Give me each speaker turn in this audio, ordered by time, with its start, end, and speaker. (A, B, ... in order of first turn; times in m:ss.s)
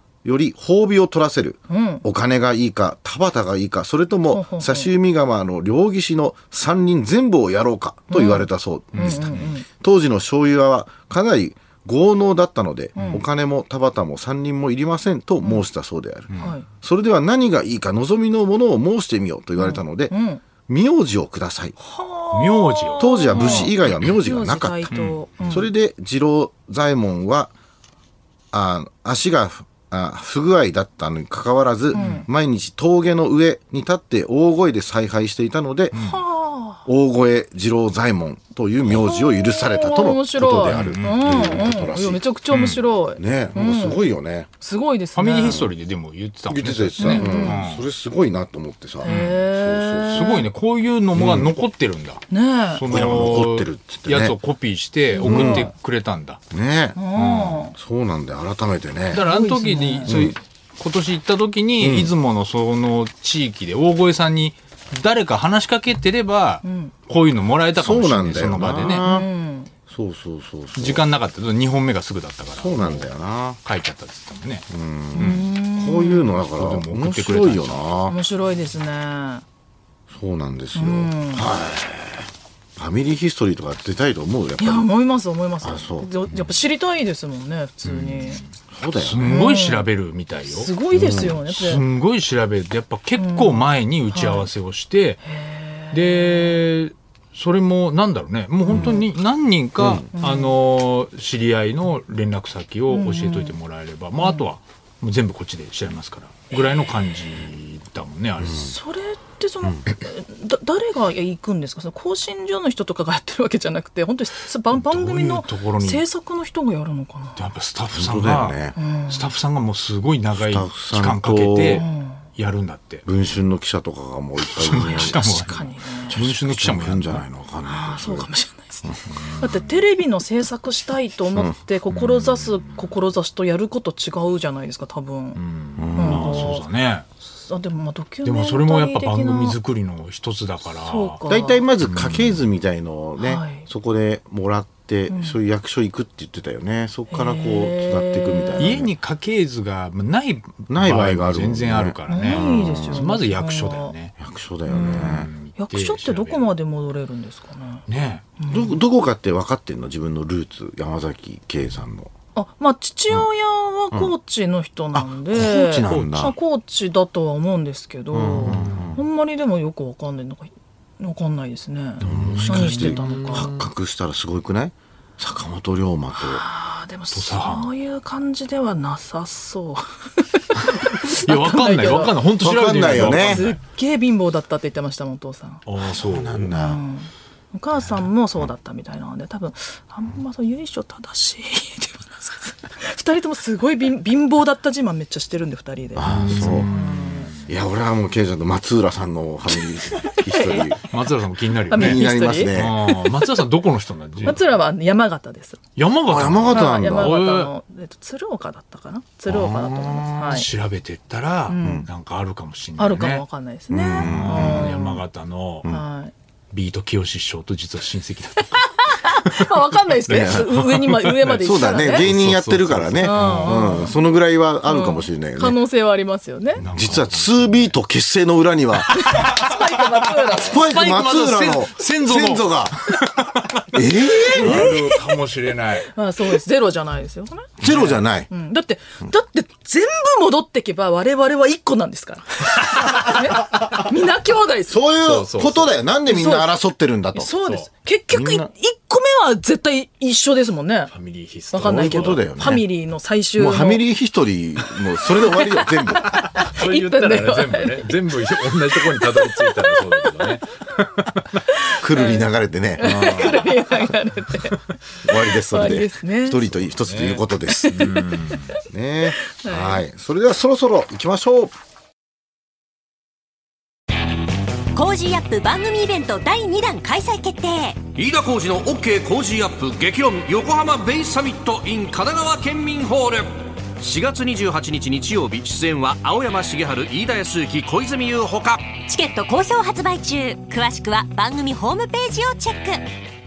0:00.2-0:20.1 A
0:01.7-0:02.0 B
0:04.3-0:04.9 B
0:08.1-0:09.7 B
0:08.9-0:09.5 C
0:13.0-0:13.2 B
0:16.4-0:16.7 B
0:19.6-0:20.4 B
0:20.6-0:21.8 A
0:21.8-0:25.7 B
0:22.3-0:24.1 C
0:23.0-0:27.5 A
0:24.9-0:25.6 C
0:28.5-0:36.0 A
0:31.9-0:32.2 B
0:32.0-0:32.2 C
0:35.9-0:36.8 B
0:35.9-0:36.2 C
0:36.8-0:42.2 A
0:38.9-0:44.0 B
0:40.7-0:41.6 C
0:42.5-0:42.8 C
0:43.2-0:44.5 A
0:44.6-0:45.6 B
0:45.2-0:47.8 C
0:45.4-0:45.7 A
0:46.5-0:50.3 A
0:47.0-0:47.6 B
0:49.0-0:50.5 B
0:49.0-0:49.4 C
0:50.1-0:56.4 C
0:51.2-0:51.6 A
0:52.3-0:52.8 B
0:52.9-0:54.4 A
0:55.1-0:55.7 B
0:55.3-0:55.7 A
0:56.5-0:57.0 A
0:57.0-0:57.8 B
0:57.2-0:57.6 C
0:57.8-0:59.3 A
0:59.1-1:09.0 C
0:59.2-1:00.1 B
1:00.1-1:00.4 A
1:01.8-1:02.1 A
1:06.6-1:06.9 B
1:07.8-1:09.3 A
1:08.8-1:09.7 B
1:09.9-1:11.0 A
1:10.8-1:13.1 C
1:12.6-1:13.6 A
1:13.6-1:14.7 C
1:14.7-1:18.2 A
1:15.2-1:16.4 B
1:16.6-1:17.8 C
1:18.1-1:19.4 B
1:20.1-1:24.9 A
1:20.8-1:21.5 B
1:24.6-1:28.4 B
1:25.6-1:26.1 A
1:27.8-1:28.4 C
1:28.7-1:29.3 A
1:29.0-1:35.2 C
1:29.2-1:29.9 B
1:30.5-1:31.8 B
1:30.9-1:31.4 A
1:33.2-1:34.5 B
1:35.2-1:36.6 B
1:35.9-1:48.7 C
1:38.6-1:39.0 B
1:39.8-1:40.1 A
1:40.1-1:40.6 B
1:42.9-1:43.5 B
1:44.2-1:44.5 B
1:46.5-1:46.8 B
1:48.5-1:57.5 B
1:54.7-1:56.0 C
1:57.4-2:03.0 C
1:57.9-1:58.8 A
1:58.8-1:59.3 B
2:00.4-2:01.8 A
2:01.8-2:02.2 B
2:03.0-2:05.2 A
2:04.5-2:07.3 C
2:04.7-2:06.2 B
2:06.1-2:08.3 A
2:07.6-2:15.4 B
2:08.8-2:09.2 A
2:09.2-2:09.6 C
2:12.0-2:12.9 C
2:15.4-2:17.1 C
2:15.8-2:16.5 A
2:15.9-2:16.7 B
2:17.4-2:19.6 B
2:18.2-2:21.2 C
2:20.8-2:21.6 B
2:21.3-2:28.9 A
2:21.9-2:22.4 C
2:23.2-2:23.7 B
2:25.1-2:25.4 B
2:27.1-2:28.8 B
2:28.6-2:34.2 C
2:30.7-2:33.0 A
2:32.1-2:33.9 B
2:34.2-2:35.3 A
2:34.7-2:37.8 B
2:34.8-2:36.5 C
2:37.9-2:38.3 C
2:38.4-2:38.8 B
2:38.5-2:42.1 A
2:42.4-2:53.5 B
2:44.9-2:46.4 A
2:45.9-2:46.3 C
2:48.1-2:49.0 A
2:48.4-2:49.0 C
2:52.0-2:53.7 C
2:52.0-2:56.4 A
2:56.2-3:02.2 B
2:57.1-2:57.7 C
3:00.6-3:03.6 C
3:02.4-3:03.4 A
3:03.0-3:05.6 B
3:05.7-3:06.5 C
3:06.0-3:06.8 A
3:06.6-3:17.3 B
3:16.0-3:16.7 A
3:16.3-3:17.4 C
3:17.5-3:20.8 A
3:20.1-3:20.9 B
3:20.9-3:24.4 C
3:21.7-3:22.5 B
3:21.7-3:22.8 A
3:24.2-3:25.6 B
3:25.8-3:27.5 C
3:26.1-3:27.2 A
3:26.5-3:30.5 B
3:29.3-3:33.2 C
3:31.5-3:31.9 B
3:31.6-3:31.9 A
3:32.8-3:35.0 B
3:33.7-3:34.8 A
3:34.0-3:35.7 C
3:35.7-3:36.1 B
3:36.5-3:39.4 C
3:38.6-3:42.1 B
3:40.1-3:40.7 A
3:40.1-3:43.7 C
3:41.4-3:45.6 A
3:43.0-3:43.9 B
3:44.7-3:46.6 B
3:46.6-3:47.7 C
3:46.6-3:49.3 A
3:48.9-3:50.7 B
3:49.0-3:53.7 C
3:50.4-3:52.8 A
3:53.7-3:54.8 A
3:54.1-3:55.0 B
3:54.2-3:55.9 C
3:55.9-3:57.5 B
3:57.6-3:58.3 A
3:57.6-3:58.0 C
3:58.3-4:04.8 B
4:04.7-4:07.4 A
4:05.0-4:05.7 C
4:06.1-4:06.6 B
4:07.1-4:10.9 B
4:08.1-4:08.5 A
4:10.9-4:12.6 C
4:11.5-4:13.8 B
4:11.6-4:12.6 A
4:13.4-4:16.2 A
4:15.2-4:18.0 B
4:16.0-4:21.4 C
4:18.9-4:20.4 B
4:21.7-4:22.2 B
4:21.8-4:23.4 A
4:22.8-4:24.6 B
4:22.8-4:23.6 C
4:25.0-4:27.9 A
4:25.4-4:26.4 B
4:26.6-4:28.5 C
4:27.5-4:28.6 B
4:28.7-4:31.6 A
4:29.2-4:29.8 B
4:34.7-4:37.8 D
4:38.0-4:48.7 E
4:48.8-4:52.9 D